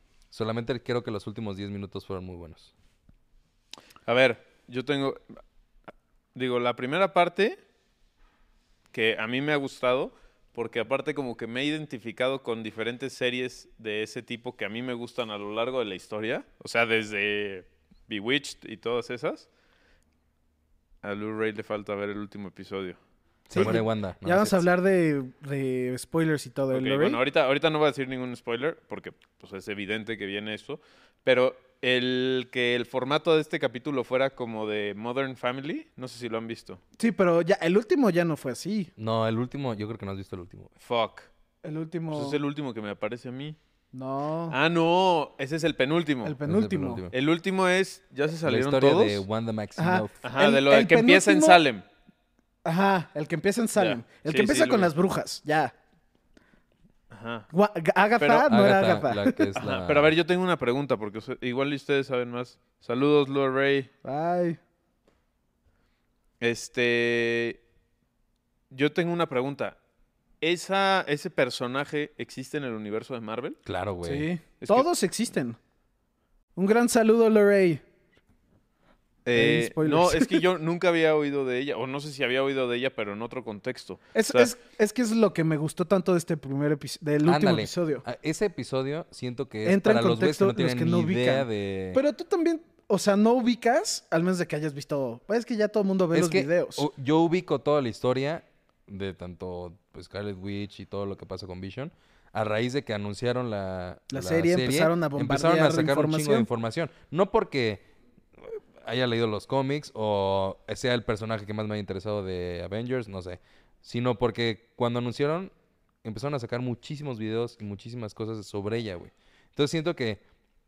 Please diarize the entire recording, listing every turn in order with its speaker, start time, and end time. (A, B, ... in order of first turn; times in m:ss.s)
0:00.3-0:02.7 A
0:04.1-0:05.2 B
0:06.3-0:07.6 B
0:08.9-0:19.5 B
0:21.0-0:23.0 B
0:23.5-0:24.7 A
0:23.5-0:27.2 C
0:26.7-0:36.8 B
0:37.0-0:38.9 C
0:39.0-0:40.7 A
0:40.8-0:41.3 B
0:41.6-0:42.4 C
0:42.1-0:43.6 B
0:43.9-0:44.6 C
0:44.5-0:46.4 B
0:46.2-0:47.1 C
0:46.4-0:47.1 A
0:47.1-0:49.2 B
0:48.4-0:50.1 A
0:49.8-0:51.6 C
0:50.2-0:51.8 B
0:52.6-0:55.7 C
0:53.8-0:54.9 B
0:57.1-0:57.5 B
0:57.5-0:59.5 C
0:58.3-1:00.1 A
0:59.5-1:03.9 B
1:04.0-1:04.6 C
1:06.4-1:07.6 B
1:08.7-1:09.8 B
1:10.4-1:13.6 B
1:13.6-1:14.3 A
1:14.0-1:15.6 C
1:14.6-1:14.9 B
1:16.6-1:17.8 C
1:19.2-1:24.5 B
1:19.3-1:20.4 C
1:24.1-1:28.0 C
1:27.2-1:32.0 A
1:29.6-1:36.9 C
1:36.1-1:47.8 A
1:44.1-1:46.5 C
1:48.4-1:55.5 A
1:56.0-2:00.2 A